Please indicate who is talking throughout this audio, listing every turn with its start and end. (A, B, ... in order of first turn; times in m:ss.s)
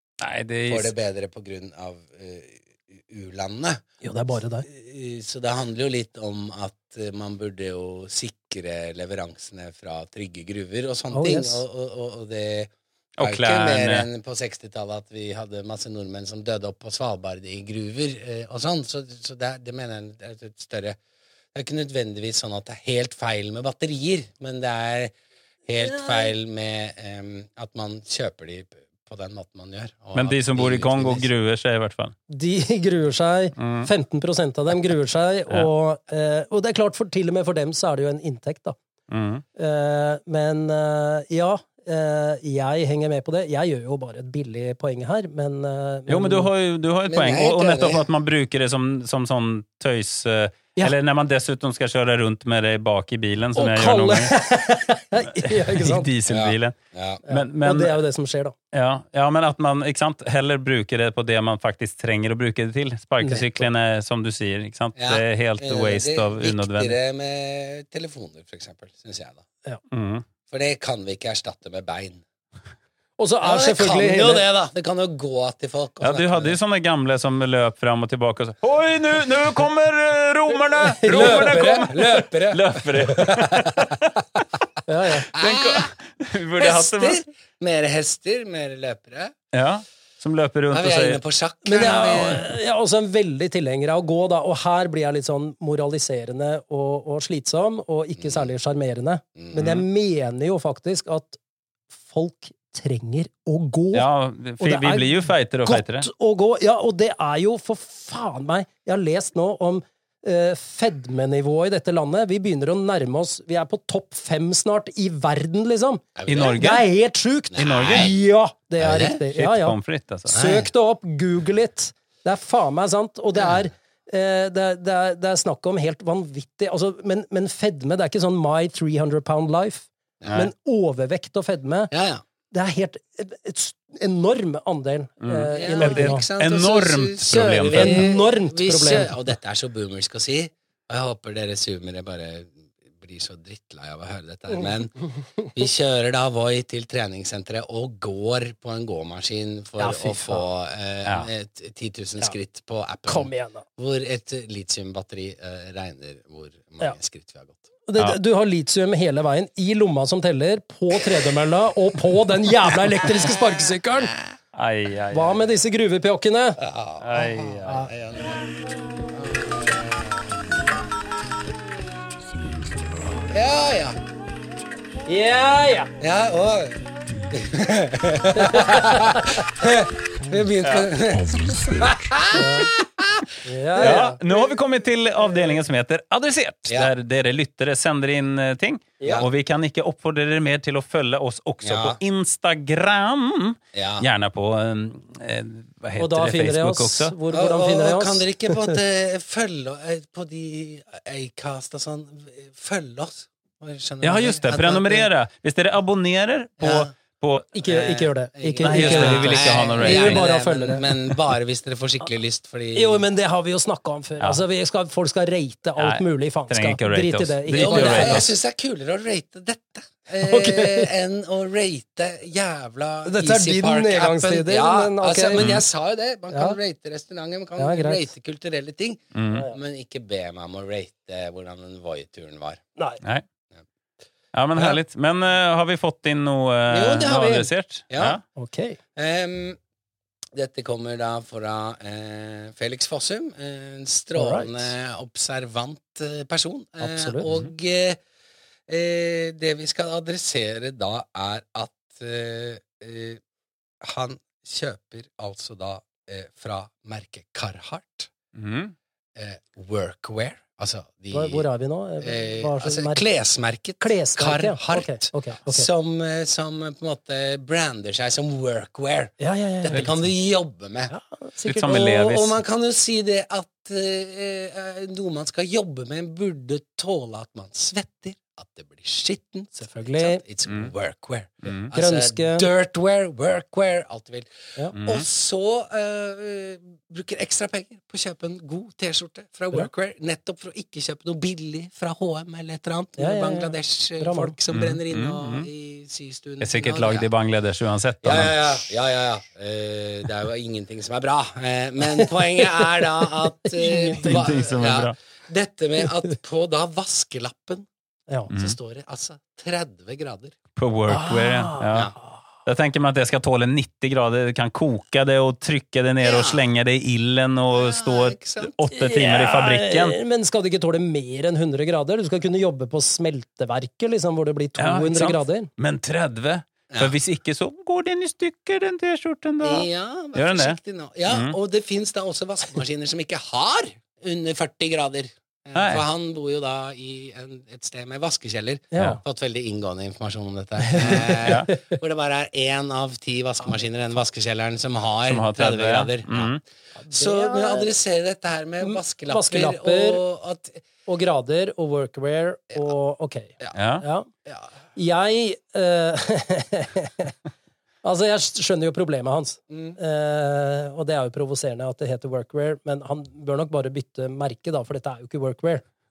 0:00.2-0:00.9 A
0:00.7-0:03.8 B
0:04.0-0:04.7 C
0:04.6-0:21.0 B
0:11.1-0:11.6 C
0:13.2-0:14.1 A
0:21.5-0:25.1 B
0:25.6-0:31.3 B
0:25.8-0:26.3 C
0:30.1-0:32.1 A
0:32.3-0:38.8 C
0:33.6-0:33.9 A
0:39.1-0:39.4 A
0:39.6-0:46.5 C
0:46.1-0:54.4 A
0:47.1-0:48.0 B
0:53.5-0:56.1 C
0:55.3-0:56.8 A
0:56.3-0:57.2 B
0:57.2-0:58.5 C
0:57.3-0:58.0 A
0:58.7-1:07.0 A
1:03.2-1:03.6 C
1:05.0-1:09.4 B
1:09.9-1:10.2 A
1:10.5-1:12.2 B
1:13.2-1:14.5 C
1:13.4-1:16.6 B
1:16.0-1:24.1 A
1:20.8-1:21.6 C
1:21.0-1:24.0 B
1:24.8-1:25.3 C
1:25.3-1:27.2 A
1:25.3-1:25.9 B
1:26.6-1:29.3 B
1:29.5-1:31.2 A
1:30.7-1:32.5 B
1:31.6-1:41.4 C
1:39.4-1:39.8 B
1:42.0-1:44.1 C
1:43.9-1:46.1 A
1:44.6-1:59.8 C
1:56.2-1:56.6 B
1:56.3-1:56.8 A
1:57.5-1:58.1 B
1:57.6-1:58.1 A
1:58.8-1:59.2 B
1:59.3-2:00.4 A
2:00.3-2:00.7 B
2:00.3-2:11.9 C
2:10.2-2:10.5 B
2:11.9-2:12.2 B
2:12.5-2:16.2 C
2:15.2-2:18.1 A
2:15.5-2:25.0 B
2:17.7-2:19.1 C
2:25.5-2:37.6 B
2:29.8-2:30.4 C
2:33.1-2:33.6 C
2:37.9-2:44.1 C
2:44.5-2:45.5 A
2:45.1-2:46.6 C
2:46.6-2:48.4 B
2:47.0-2:47.9 A
2:49.1-2:50.5 B
2:53.2-2:54.0 B
2:55.1-2:55.9 C
2:56.0-3:03.3 B
2:58.4-2:59.4 C
3:00.6-3:00.9 A
3:02.3-3:02.8 C
3:03.4-3:04.2 C
3:03.8-3:17.1 A
3:09.0-3:09.2 C
3:11.6-3:12.0 B
3:13.7-3:14.1 B
3:16.0-3:18.7 C
3:17.3-3:25.1 B
3:24.0-3:27.5 A
3:26.6-3:26.9 B
3:27.5-3:30.9 C
3:27.6-3:33.0 B
3:28.6-3:30.3 A
3:32.7-3:38.2 C
3:35.8-3:38.3 A
3:37.5-3:52.6 B
3:40.2-3:40.9 C
3:43.0-3:45.4 C
3:45.4-3:45.6 A
3:46.3-3:46.6 C
3:47.6-3:48.1 C
3:49.1-3:49.5 A
3:49.3-3:49.6 C
3:54.3-3:58.2 A
3:54.5-3:54.8 B
3:56.7-3:58.2 B
3:58.4-3:58.8 C
3:59.0-3:59.6 B
4:00.3-4:08.0 B
4:04.1-4:04.7 C
4:06.8-4:07.3 C
4:08.7-4:13.2 B
4:13.8-4:18.1 B
4:18.3-4:18.7 A
4:19.1-4:21.4 B
4:21.1-4:23.0 C
4:22.0-4:30.9 B
4:23.8-4:25.7 C
4:29.2-4:29.8 C
4:30.9-4:32.0 C
4:31.4-4:32.4 A
4:31.7-4:57.1 B
4:39.6-4:40.2 C
4:41.4-4:41.7 A
4:41.7-4:42.5 C
4:44.7-4:45.0 A
4:53.0-4:54.4 C
4:54.5-4:55.5 A
4:56.4-4:58.5 A
4:58.0-5:07.6 B
5:02.0-5:04.5 C
5:04.0-5:04.9 A
5:08.3-5:10.4 B
5:08.3-5:08.6 A
5:10.6-5:11.9 A
5:10.9-5:12.2 C
5:12.4-5:20.0 A
5:16.0-5:16.4 B
5:17.5-5:18.5 B
5:18.7-5:25.5 C
5:24.6-5:31.4 A
5:29.4-5:46.4 B
5:35.5-5:35.8 A
5:38.7-5:39.0 C
5:40.6-5:41.6 C
5:41.0-5:41.5 A
5:45.1-5:46.4 A
5:46.8-5:47.7 C
5:46.9-5:50.6 B
5:48.6-5:50.0 C
5:50.8-5:54.1 C
5:53.5-5:53.8 A
5:54.7-5:57.1 C
5:57.8-6:05.6 C
5:59.5-5:59.8 B